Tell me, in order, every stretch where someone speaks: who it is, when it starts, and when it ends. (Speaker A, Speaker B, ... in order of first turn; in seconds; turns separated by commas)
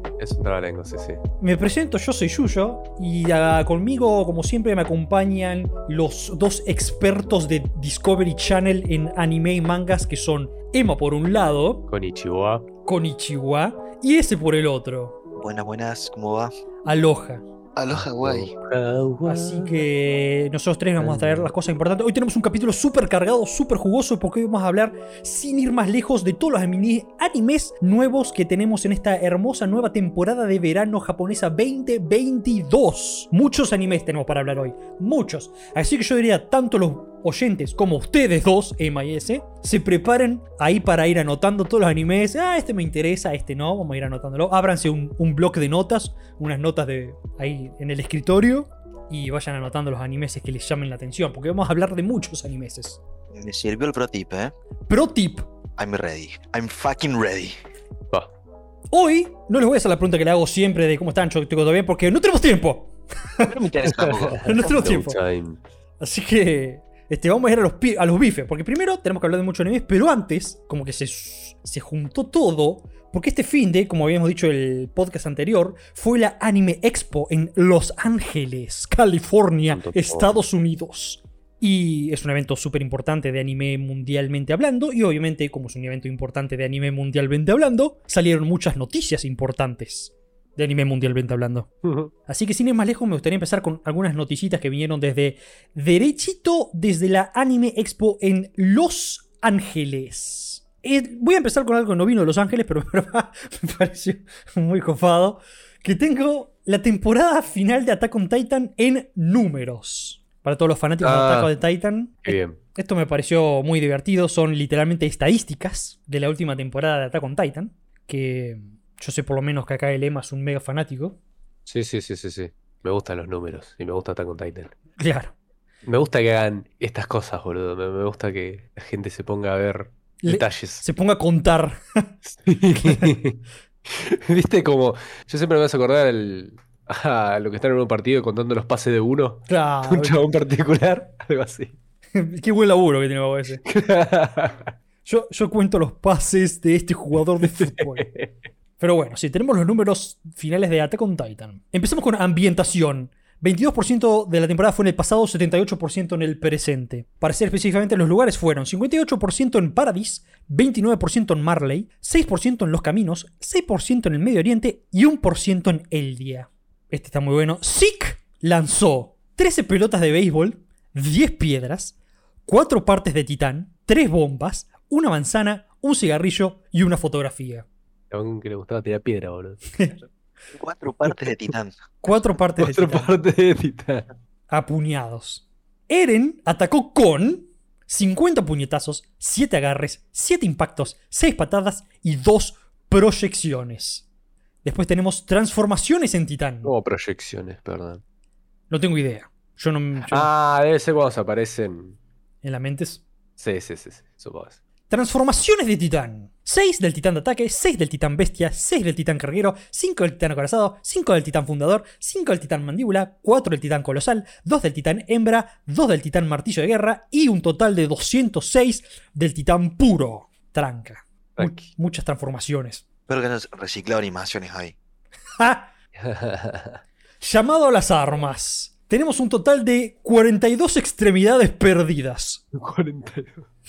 Speaker A: 0.2-1.2, Speaker B: 1.4-11.8, Speaker A: 11.9-12.7, Speaker B: 12.8-15.2, Speaker C: 15.4-16.5, Speaker B: 16.9-17.4, Speaker C: 17.8-18.5, Speaker A: 17.9-19.8, Speaker B: 19.2-53.0, Speaker A: 21.0-21.5, Speaker C: 53.3-54.5, Speaker B: 54.9-55.5, Speaker C: 55.8-57.5, Speaker B: 58.9-63.6, Speaker C: 63.4-64.7, Speaker A: 64.0-65.6, Speaker B: 64.4-65.2, Speaker B: 66.0-91.7, Speaker A: 79.7-80.3, Speaker A: 91.8-92.1, Speaker B: 92.3-121.2, Speaker A: 111.0-111.5, Speaker A: 112.2-112.6, Speaker A: 121.7-124.7, Speaker B: 125.0-125.3, Speaker A: 125.8-130.8, Speaker B: 130.2-132.1, Speaker A: 132.3-141.7, Speaker B: 132.7-133.1, Speaker B: 139.5-140.2, Speaker B: 142.1-143.6, Speaker A: 143.6-144.7, Speaker B: 145.0-148.1, Speaker A: 147.4-148.3, Speaker B: 148.8-177.7, Speaker A: 178.1-179.6, Speaker C: 180.5-181.7, Speaker B: 182.0-183.2, Speaker A: 182.6-184.1, Speaker B: 184.5-194.0, Speaker B: 194.6-196.7, Speaker A: 196.6-198.0, Speaker B: 198.7-200.3, Speaker A: 200.0-201.9, Speaker B: 202.4-203.0, Speaker A: 203.4-204.6, Speaker B: 204.9-222.8, Speaker C: 223.1-224.7, Speaker B: 225.4-225.7, Speaker A: 225.9-226.8, Speaker B: 227.2-232.4, Speaker A: 232.5-233.5